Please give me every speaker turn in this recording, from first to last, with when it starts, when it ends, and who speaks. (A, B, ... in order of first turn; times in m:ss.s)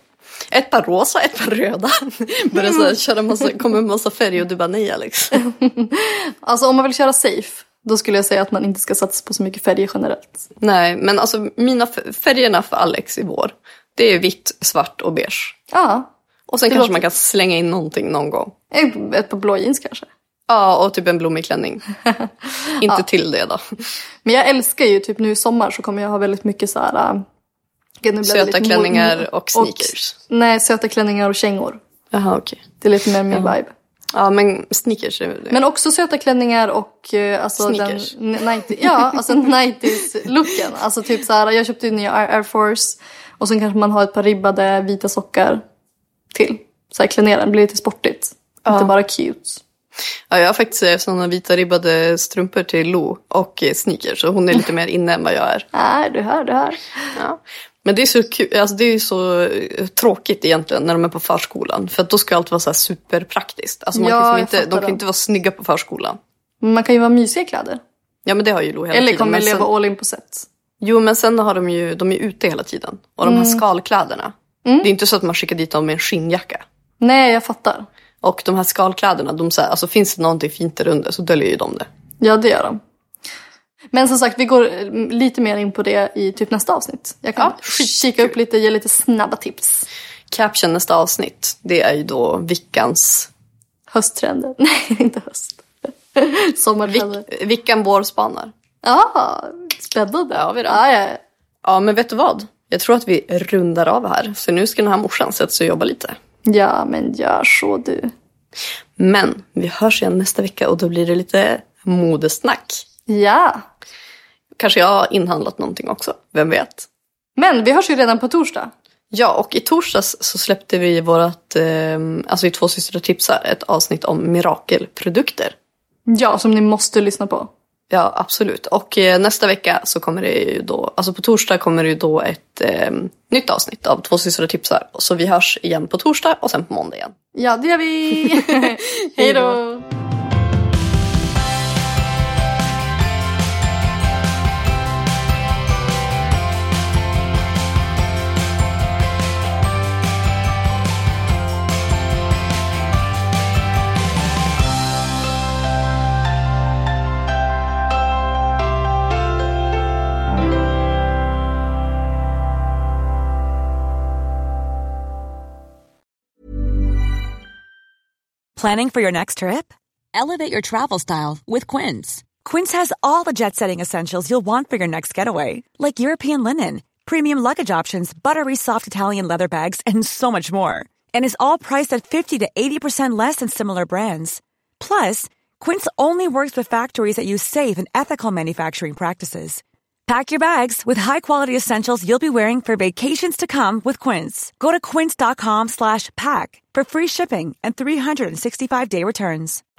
0:00.5-0:05.4 A
0:05.4-0:10.4 B
0:10.6-0:15.6 A
0:15.7-0:16.1 B
0:16.5-0:18.5 A
0:16.7-0:17.0 B
0:18.7-0:20.1 B
0:20.5-0:21.8 A
0:22.8-0:23.6 A
0:24.2-0:27.2 B
0:28.0-0:31.8 B
0:28.2-0:30.1 A
0:32.1-0:32.6 A
0:32.8-0:33.7 B
0:34.1-0:35.6 A
0:35.5-0:45.6 B
0:37.6-0:38.2 A
0:46.3-0:49.6 B
0:48.6-0:48.9 A
0:50.3-0:55.7 A
0:55.7-0:56.8 B
0:57.2-1:06.2 A
1:03.9-1:05.0 B
1:06.6-1:07.8 B
1:08.2-1:09.7 A
1:08.9-1:10.5 B
1:10.8-1:16.6 A
1:13.2-1:13.6 B
1:14.6-1:14.9 B
1:17.0-1:17.9 B
1:18.2-1:21.9 A
1:22.2-1:22.8 B
1:23.9-1:29.8 B
1:27.4-1:28.3 A
1:30.3-1:33.3 A
1:33.9-1:37.3 B
1:36.8-1:38.5 A
1:38.8-1:41.2 B
1:40.3-1:40.8 A
1:41.6-1:46.2 A
1:46.4-1:48.1 B
1:49.0-1:52.8 A
1:53.1-1:53.6 B
1:54.6-1:56.9 A
1:57.4-1:58.7 B
1:59.1-2:05.5 A
2:06.1-2:07.5 B
2:07.9-2:17.1 A
2:17.3-2:19.8 B
2:18.2-2:19.6 A
2:48.6-3:19.6 C